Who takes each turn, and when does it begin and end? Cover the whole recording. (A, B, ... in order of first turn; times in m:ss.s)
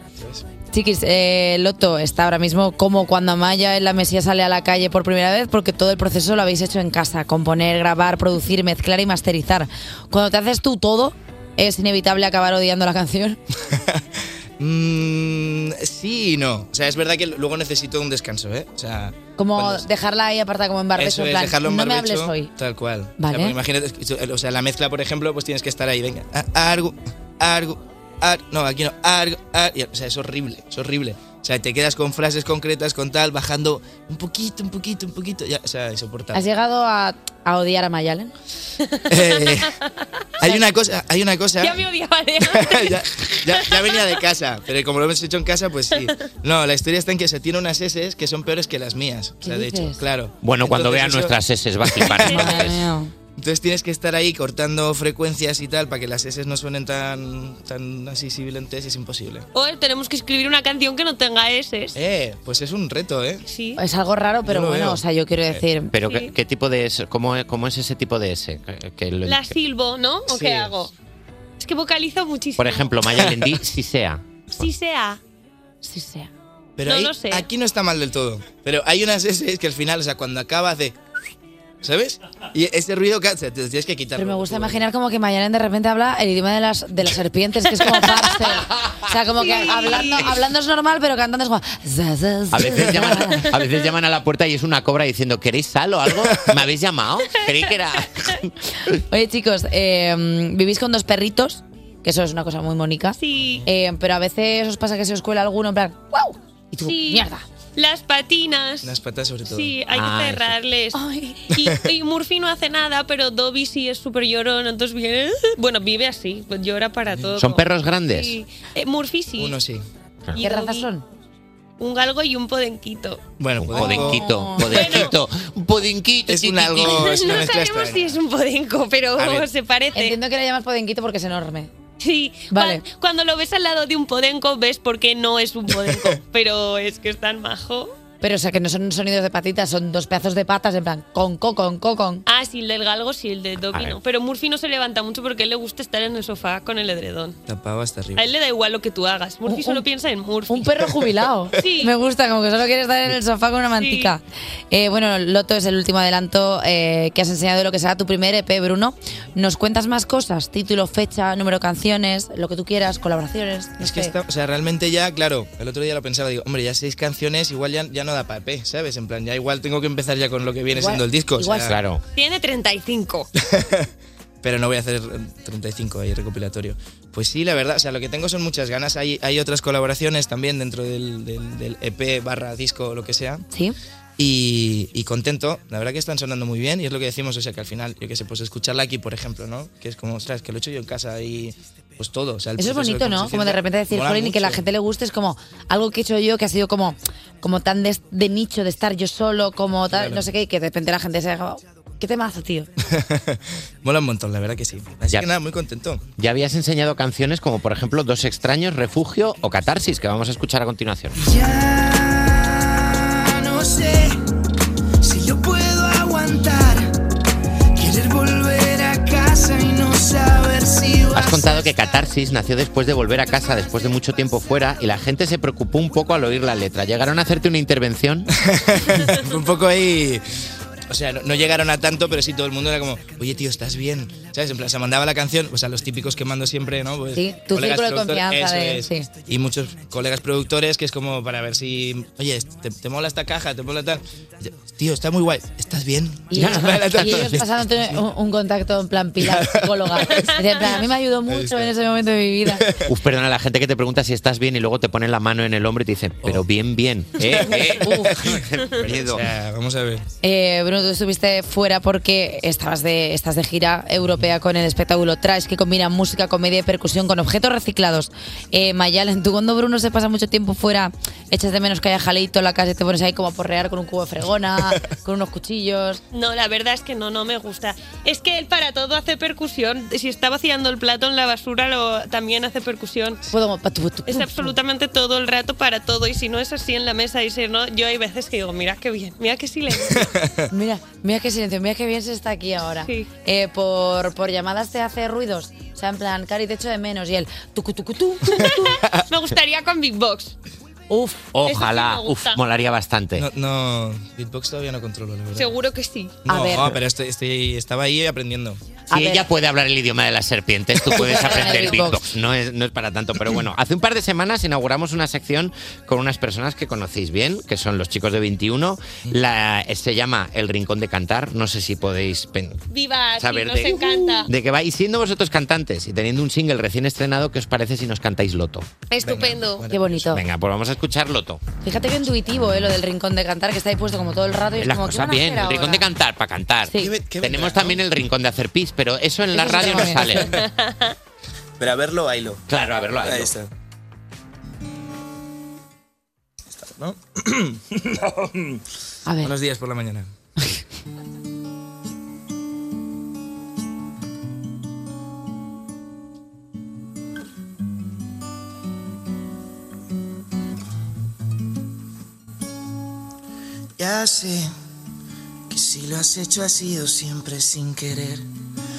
0:00.2-0:00.4 A
0:00.7-0:13.4 B
0:13.7-0:14.0 A
0:14.6-0:19.9 A
0:19.4-0:22.5 B
0:21.0-0:36.5 A
0:23.2-0:23.6 B
0:36.3-0:38.3 B
0:38.9-0:39.7 C
0:39.1-0:39.7 A
0:40.4-0:41.8 A
0:41.6-0:44.1 C
0:42.4-0:52.4 A
0:49.4-0:50.0 B
0:50.4-0:52.8 D
0:52.2-0:53.1 B
0:52.2-0:52.5 C
0:53.4-0:59.5 A
0:59.5-1:02.0 C
1:02.0-1:03.4 A
1:03.5-1:03.8 C
1:03.8-1:05.9 B
1:04.4-1:05.6 A
1:05.9-1:09.5 D
1:06.0-1:06.3 C
1:09.2-1:10.9 C
1:10.3-1:10.9 A
1:11.6-1:12.9 C
1:12.6-1:14.6 D
1:13.1-1:13.6 A
1:14.5-1:15.2 C
1:15.8-1:16.3 B
1:16.8-1:21.0 A
1:16.9-1:17.5 C
1:21.8-1:24.8 A
1:24.2-1:33.5 B
1:27.9-1:28.4 C
1:29.4-1:30.4 C
1:32.5-1:38.4 D
1:39.0-1:47.4 B
1:43.2-1:43.6 C
1:46.8-1:48.9 C
1:48.8-1:49.8 A
1:49.5-1:51.0 C
1:49.9-1:50.5 D
1:50.9-1:51.4 B
1:51.5-1:59.6 C
1:57.1-1:57.4 A
1:57.4-1:58.4 D
1:59.4-1:59.8 A
2:00.4-2:00.9 C
2:00.4-2:01.0 B
2:01.8-2:03.3 C
2:03.4-2:05.0 A
2:03.6-2:07.2 D
2:03.8-2:05.1 B
2:04.7-2:05.1 C
2:06.3-2:08.2 A
2:06.9-2:10.2 C
2:09.2-2:09.5 A
2:10.0-2:11.7 B
2:12.0-2:17.9 C
2:12.5-2:12.8 B
2:15.7-2:16.2 A
2:18.2-2:22.2 B
2:22.3-2:27.4 C
2:23.7-2:24.0 D
2:27.5-2:28.3 A
2:28.2-2:30.7 C
2:29.5-2:29.8 B
2:30.5-2:44.1 B
2:31.6-2:31.9 C
2:33.8-2:34.2 C
2:43.8-2:51.8 A
2:50.8-2:51.8 B
2:51.6-2:52.0 D
2:52.2-2:53.3 C
2:53.5-2:53.9 A
2:54.4-3:03.4 A
3:04.2-3:14.6 A
3:12.6-3:22.7 B
3:19.9-3:20.2 A
3:22.9-3:26.1 A
3:26.2-3:31.2 D
3:31.2-3:34.2 E
3:35.0-3:37.0 E
3:37.8-3:41.6 E
3:41.1-3:48.3 D
3:48.4-3:50.2 A
3:50.9-4:07.9 A
3:57.2-3:59.1 B
4:06.3-4:12.7 B
4:06.4-4:07.4 D
4:09.2-4:10.2 A
4:11.3-4:11.7 A
4:12.6-4:12.9 A
4:12.9-4:19.3 D
4:17.3-4:20.0 A
4:17.5-4:18.2 B
4:20.2-4:36.0 B
4:36.1-4:43.2 C
4:43.3-4:44.5 B
4:44.1-4:50.0 C
4:49.8-4:50.3 A
4:50.5-4:58.8 B
4:58.3-5:00.3 C
5:00.9-5:01.3 B
5:01.3-5:03.3 D
5:01.4-5:02.4 C
5:03.2-5:05.5 A
5:05.4-5:06.2 C
5:06.2-5:08.6 A
5:06.3-5:06.8 B
5:08.9-5:09.3 B
5:08.9-5:22.6 D
5:10.9-5:12.0 B
5:22.7-5:24.3 C
5:23.2-5:28.7 D
5:28.9-5:29.7 C
5:29.0-5:30.2 A
5:29.7-5:30.2 B
5:30.1-5:31.4 D
5:31.6-5:35.9 B
5:34.6-5:40.4 D
5:36.7-5:36.9 B
5:36.8-5:37.8 A
5:39.3-5:40.3 B
5:39.7-5:40.2 A
5:40.7-5:40.9 C
5:41.6-5:42.4 A
5:42.5-5:43.4 D
5:43.0-5:43.5 A
5:46.6-5:48.6 A
5:49.1-5:49.3 B
5:49.2-5:50.1 A
6:03.8-6:04.5 E
6:05.5-6:08.3 E